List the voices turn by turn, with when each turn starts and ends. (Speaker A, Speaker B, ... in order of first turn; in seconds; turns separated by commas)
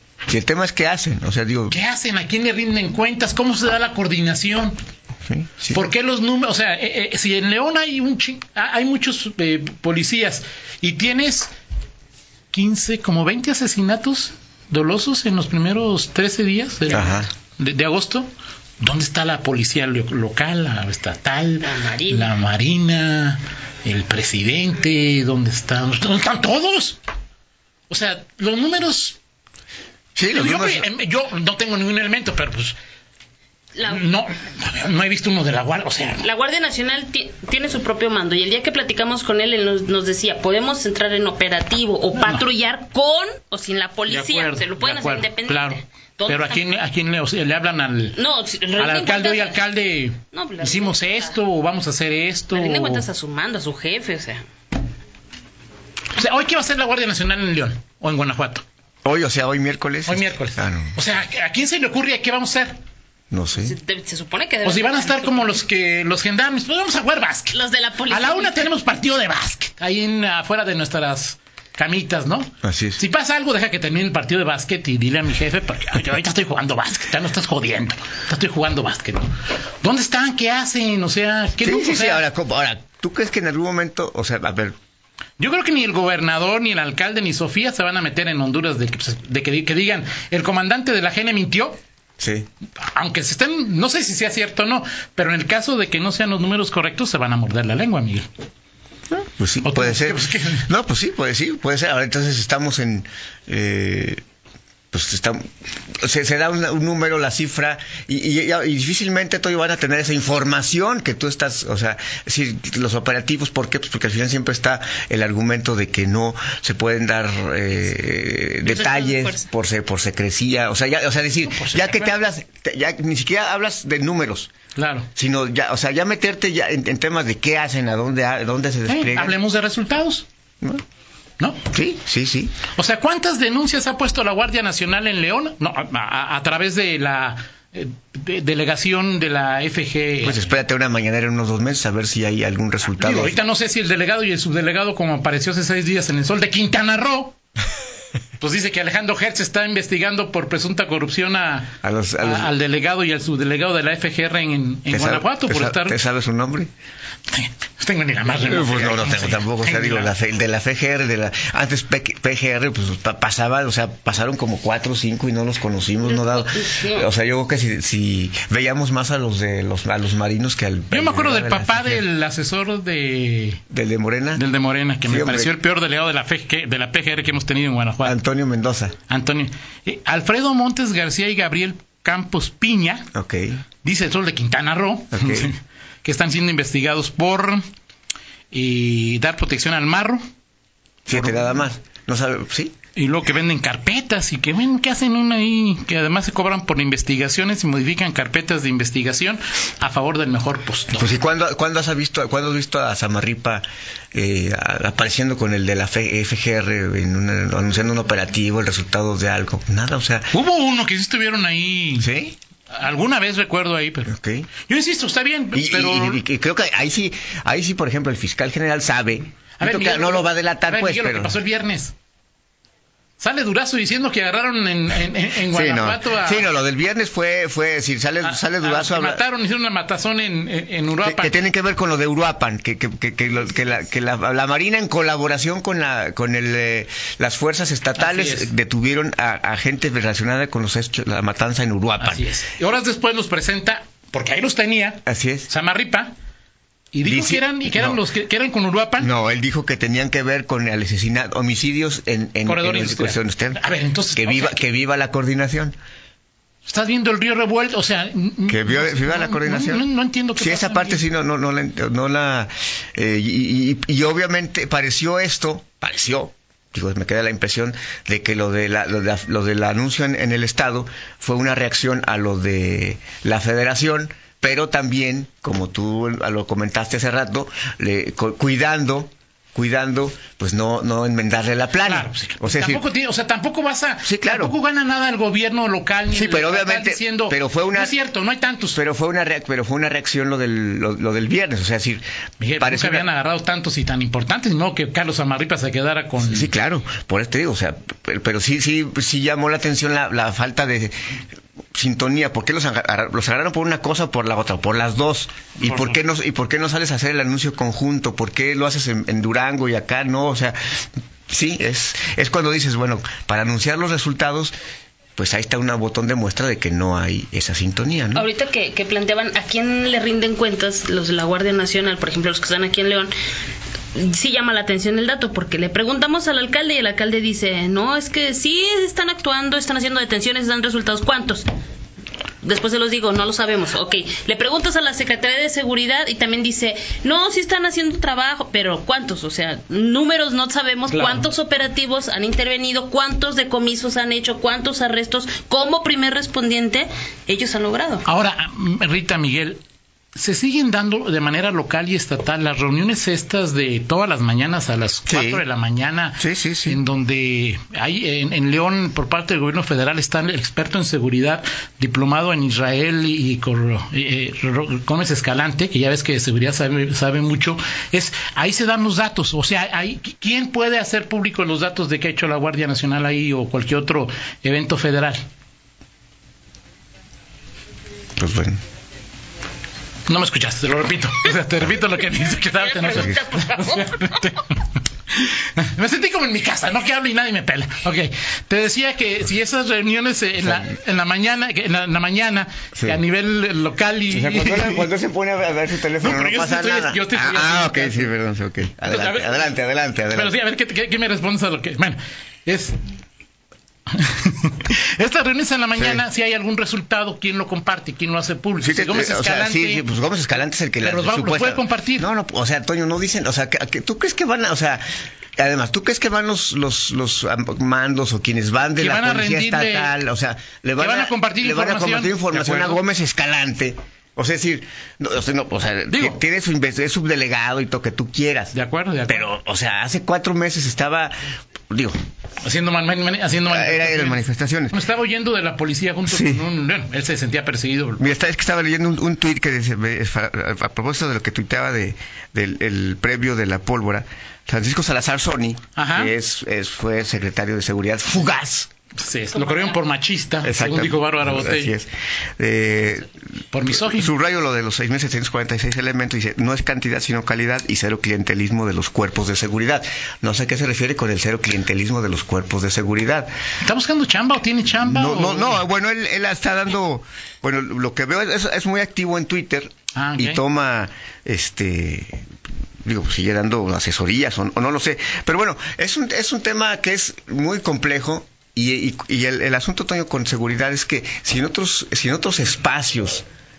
Speaker A: 0.3-1.8, Speaker B: 1.7-4.8, Speaker A: 5.2-5.8, Speaker B: 5.7-11.5, Speaker B: 12.5-18.3, Speaker A: 16.9-17.3, Speaker B: 18.8-27.0, Speaker C: 21.6-22.3, Speaker B: 27.9-29.2, Speaker A: 30.1-30.9, Speaker B: 30.3-32.8, Speaker C: 33.7-34.0, Speaker B: 33.9-36.3, Speaker C: 36.2-46.6, Speaker B: 42.1-42.4, Speaker B: 44.1-48.2, Speaker C: 48.2-49.6, Speaker B: 48.8-53.0, Speaker C: 50.3-51.3, Speaker C: 52.5-54.5, Speaker B: 56.1-58.6, Speaker A: 59.0-61.0, Speaker B: 60.1-62.8, Speaker A: 63.3-63.7, Speaker C: 63.6-65.6, Speaker B: 64.6-67.6, Speaker C: 67.5-68.7, Speaker B: 68.1-82.2, Speaker A: 72.6-73.0, Speaker A: 81.6-84.7, Speaker B: 85.4-91.8, Speaker A: 92.2-92.5, Speaker B: 92.8-98.3, Speaker A: 99.1-104.2, Speaker B: 99.6-100.7, Speaker A: 104.9-124.5, Speaker C: 118.6-119.4, Speaker B: 121.5-122.2, Speaker B: 124.7-125.1, Speaker A: 125.1-129.4, Speaker B: 128.9-130.2, Speaker B: 131.4-131.7, Speaker A: 131.7-132.6, Speaker B: 132.7-140.4, Speaker A: 140.2-143.4, Speaker B: 143.0-147.3, Speaker B: 148.4-156.0, Speaker A: 151.8-152.5, Speaker A: 154.9-156.7, Speaker B: 157.3-160.1, Speaker A: 158.4-172.0, Speaker C: 166.1-167.1, Speaker B: 170.9-173.6, Speaker A: 173.7-174.4, Speaker B: 174.3-178.2, Speaker A: 175.1-175.5, Speaker A: 178.0-178.9, Speaker B: 179.1-183.1, Speaker A: 183.1-183.6, Speaker B: 183.8-187.6, Speaker A: 185.1-185.5, Speaker B: 188.5-190.2, Speaker A: 191.1-192.7, Speaker B: 191.1-191.5, Speaker B: 192.9-201.1, Speaker A: 200.9-210.3, Speaker B: 210.3-212.1, Speaker A: 212.0-212.3, Speaker B: 212.7-214.1, Speaker A: 214.1-214.5, Speaker B: 214.7-216.2, Speaker A: 215.5-221.4, Speaker B: 219.6-221.9, Speaker B: 223.2-226.5, Speaker A: 225.4-229.2, Speaker B: 228.2-231.4, Speaker A: 231.0-242.3, Speaker B: 238.0-238.5, Speaker B: 242.0-246.1, Speaker A: 245.0-245.5, Speaker B: 246.9-249.1, Speaker A: 247.0-248.0, Speaker A: 249.0-253.6, Speaker B: 252.4-254.6, Speaker A: 254.2-255.8, Speaker B: 256.6-261.0, Speaker A: 258.5-259.8, Speaker A: 260.4-282.8, Speaker B: 281.8-288.8, Speaker A: 284.0-284.5, Speaker A: 286.1-287.9, Speaker A: 288.7-292.0, Speaker B: 292.4-296.5, Speaker A: 292.6-293.0, Speaker A: 296.2-301.2, Speaker A: 301.7-310.6, Speaker A: 311.3-314.5, Speaker A: 315.2-318.2, Speaker C: 318.1-323.1, Speaker C: 323.9-331.5, Speaker C: 332.4-348.0, Speaker B: 340.9-341.3, Speaker B: 348.1-349.6, Speaker B: 350.1-375.2, Speaker A: 355.1-355.4, Speaker A: 356.2-356.8, Speaker A: 378.2-378.6, Speaker B: 380.1-384.6, Speaker C: 382.5-384.3, Speaker A: 382.9-383.2, Speaker B: 385.1-394.9, Speaker A: 392.7-393.0, Speaker A: 394.1-400.4, Speaker B: 396.0-398.1, Speaker B: 398.8-399.5, Speaker B: 400.1-402.8, Speaker B: 403.9-409.9, Speaker A: 405.8-406.0, Speaker A: 408.6-414.8, Speaker B: 410.8-412.1, Speaker A: 415.4-428.5, Speaker B: 418.8-419.9, Speaker B: 420.8-422.8, Speaker B: 425.9-426.2, Speaker B: 428.5-429.3, Speaker A: 429.1-431.1, Speaker A: 431.7-431.9, Speaker B: 432.4-434.2, Speaker A: 433.5-434.7, Speaker B: 434.7-438.1, Speaker A: 436.1-436.4, Speaker A: 438.0-448.7, Speaker B: 445.8-446.1, Speaker B: 448.9-451.7, Speaker C: 449.5-449.7, Speaker A: 450.4-463.3, Speaker B: 453.5-454.1, Speaker B: 463.6-465.6, Speaker A: 464.8-472.2, Speaker B: 469.9-470.4, Speaker A: 472.8-483.2